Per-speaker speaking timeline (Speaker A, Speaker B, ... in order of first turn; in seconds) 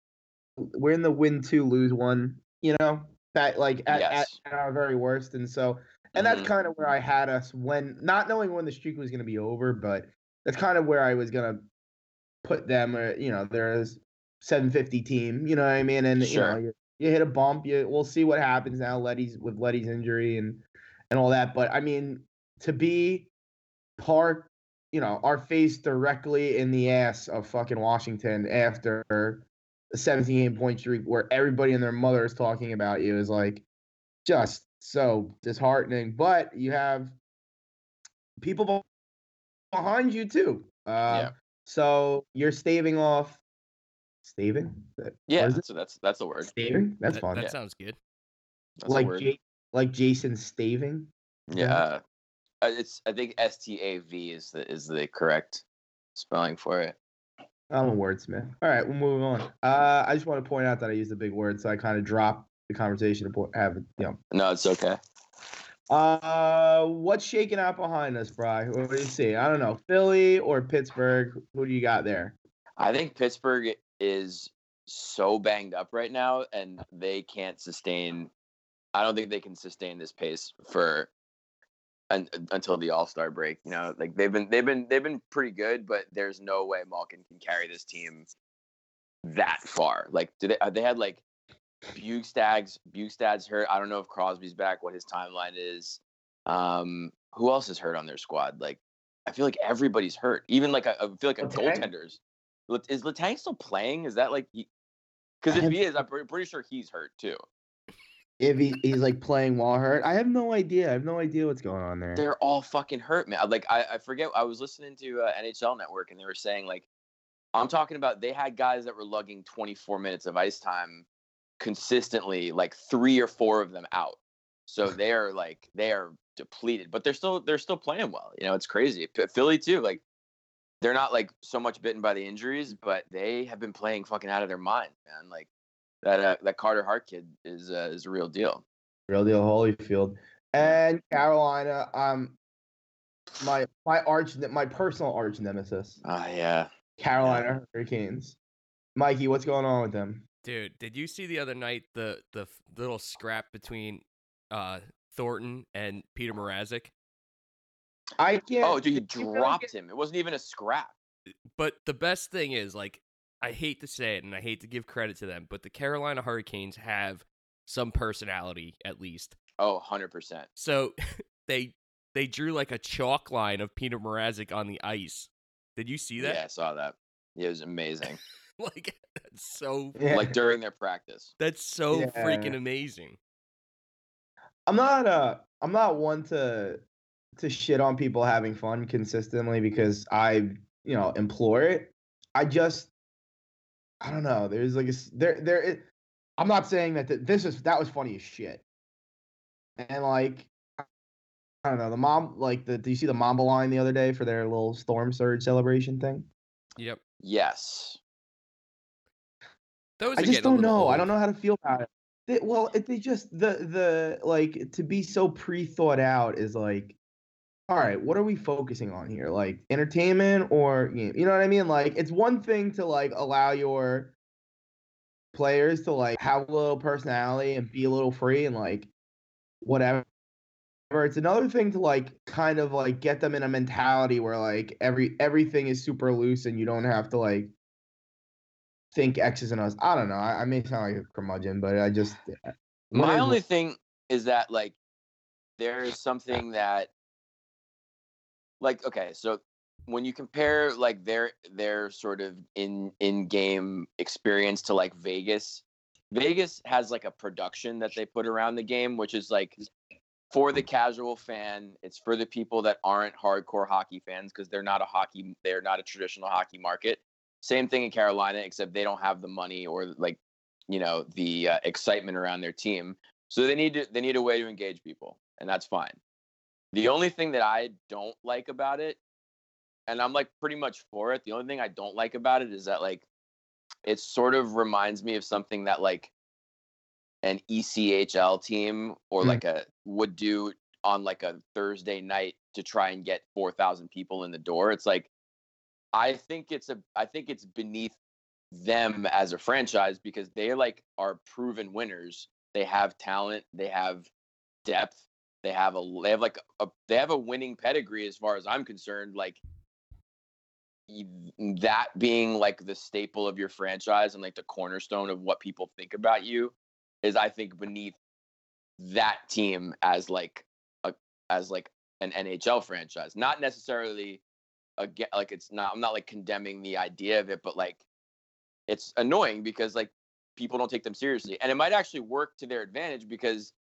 Speaker A: 0.6-11.6, 12.4-23.3, 24.0-33.6, 34.2-37.1, 38.4-38.9, 39.7-43.4, 44.2-45.6, 46.4-47.4, 48.9-51.8, 57.7-64.2, 65.9-72.3, 101.4-101.9, 105.5-105.8, 108.4-112.2, 139.1-142.4, 143.4-146.0, 147.0-148.4, 149.0-150.2, 158.2-159.7, 180.0-180.3, 181.9-182.6, 184.7-186.8, 187.4-192.9, 194.0-195.9, 196.4-198.6, 199.8-200.5, 201.6-206.3, 210.2-216.9, 217.7-224.1, 225.3-228.9, 229.6-230.1, 230.9-237.5, 238.9-243.4
Speaker B: 3.9-4.4, 6.2-6.5, 16.2-16.6, 45.3-46.5, 48.8-49.3, 51.5-52.0, 52.6-55.6, 56.1-57.0, 64.3-65.0, 72.8-78.3, 78.9-81.1, 82.1-88.3, 89.2-91.2, 92.0-104.7, 105.4-107.4, 112.2-116.9, 117.5-121.0, 121.6-130.0, 130.8-135.5, 136.0-138.6, 146.0-147.4, 158.6-160.9, 169.6-170.5, 176.2-178.2, 180.1-181.3, 207.2-208.0, 242.9-244.8, 245.6-246.9, 248.6-259.6, 260.3-276.0, 276.7-279.0, 279.9-283.1, 283.9-286.1, 287.2-295.1, 295.9-298.0, 298.5-304.1, 304.6-309.4, 310.9-318.0, 318.8-324.2, 324.8-327.8, 328.7-333.5
Speaker C: 47.1-48.0, 150.4-156.9, 161.6-169.4, 170.6-176.4, 178.6-180.0, 181.4-183.2, 210.0-211.1